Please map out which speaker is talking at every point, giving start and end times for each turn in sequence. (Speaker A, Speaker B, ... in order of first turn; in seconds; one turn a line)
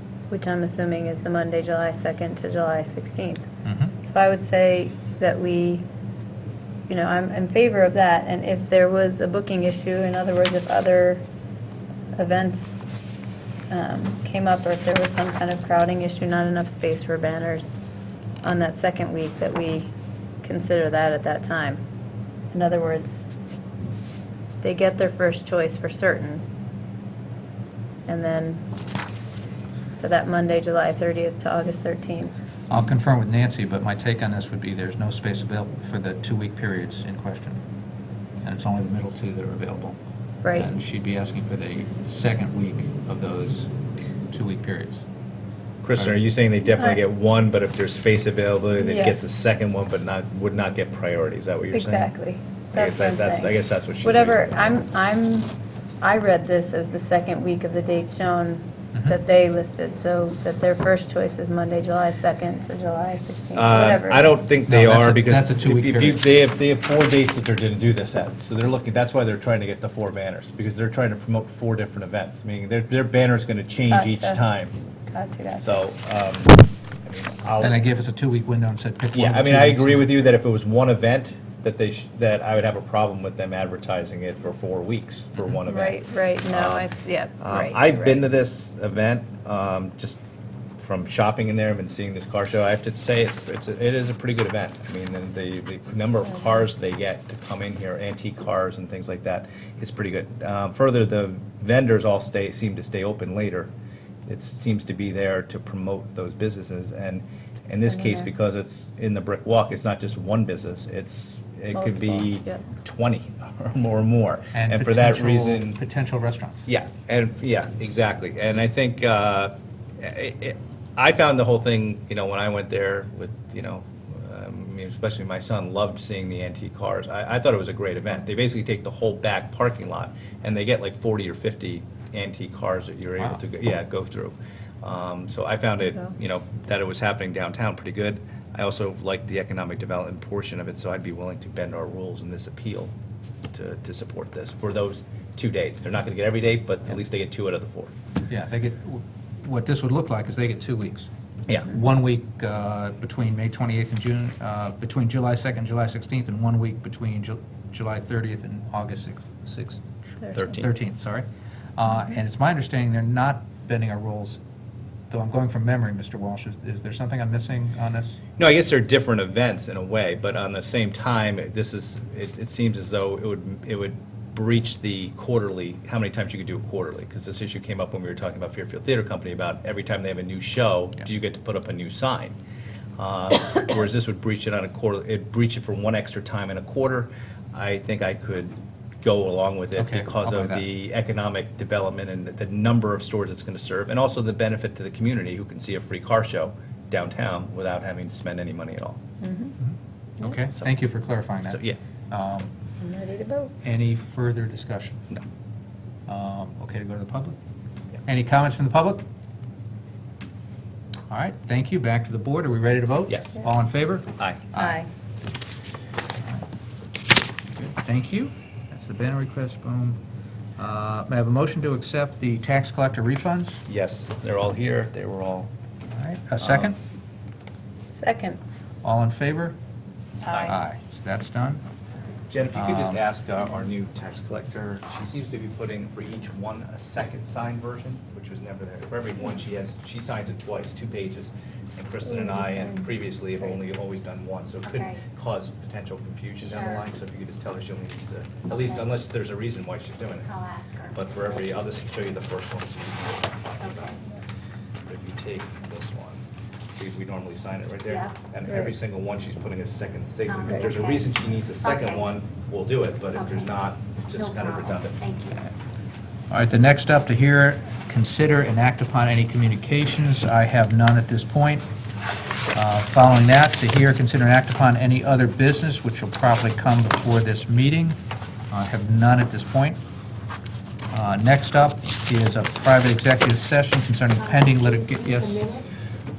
Speaker A: 0.3-3.5
Speaker A: 4.0-5.8
Speaker A: 6.9-11.2
Speaker A: 12.1-12.8
Speaker A: 13.7-17.8
Speaker A: 18.4-19.9
Speaker A: 20.4-21.8
Speaker A: 22.5-23.2
Speaker A: 24.6-26.4
Speaker A: 28.1-28.7
Speaker A: 30.0-32.3
Speaker B: 32.7-37.6
Speaker B: 38.4-40.0
Speaker A: 40.4-40.7
Speaker B: 40.6-43.7
Speaker B: 44.3-45.0
Speaker C: 45.8-52.1
Speaker A: 48.8-49.2
Speaker A: 51.7-64.4
Speaker C: 52.7-54.5
Speaker C: 63.5-74.8
Speaker B: 64.7-66.2
Speaker A: 73.9-74.4
Speaker A: 75.1-75.8
Speaker C: 75.6-77.8
Speaker B: 77.6-80.2
Speaker C: 79.1-86.9
Speaker A: 85.7-88.2
Speaker C: 87.4-90.2
Speaker C: 90.8-103.7
Speaker C: 104.3-115.8
Speaker A: 107.9-108.3
Speaker A: 111.7-112.6
Speaker B: 114.5-116.7
Speaker C: 116.7-142.9
Speaker C: 143.5-147.9
Speaker B: 148.3-151.1
Speaker B: 151.7-159.8
Speaker C: 160.3-160.7
Speaker B: 160.4-164.4
Speaker B: 165.1-168.2
Speaker C: 168.4-182.4
Speaker C: 183.0-199.0
Speaker B: 189.8-190.6
Speaker A: 199.2-199.6
Speaker B: 200.3-202.5
Speaker C: 201.5-201.8
Speaker A: 202.8-203.5
Speaker B: 203.6-205.0
Speaker B: 206.1-207.4
Speaker B: 208.1-209.0
Speaker B: 211.1-214.8
Speaker C: 213.1-213.4
Speaker C: 214.2-214.5
Speaker A: 214.6-214.9
Speaker B: 217.6-220.0
Speaker B: 220.6-223.6
Speaker C: 223.7-225.5
Speaker B: 225.9-226.8
Speaker C: 226.4-226.8
Speaker A: 227.9-228.4
Speaker B: 228.8-229.6
Speaker A: 230.2-230.6
Speaker C: 230.3-230.6
Speaker B: 230.5-231.6
Speaker C: 232.3-250.3
Speaker B: 232.6-233.0
Speaker A: 242.1-242.8
Speaker D: 244.7-245.0
Speaker D: 246.4-246.9
Speaker D: 250.3-251.1
Speaker C: 250.9-254.0
Speaker D: 253.6-254.0
Speaker C: 254.9-265.0
Speaker D: 257.9-258.1
Speaker D: 260.3-262.1
Speaker D: 263.1-265.4
Speaker B: 266.3-271.7
Speaker B: 272.5-278.0
Speaker B: 278.5-279.8
Speaker B: 280.9-285.4
Speaker D: 284.2-286.0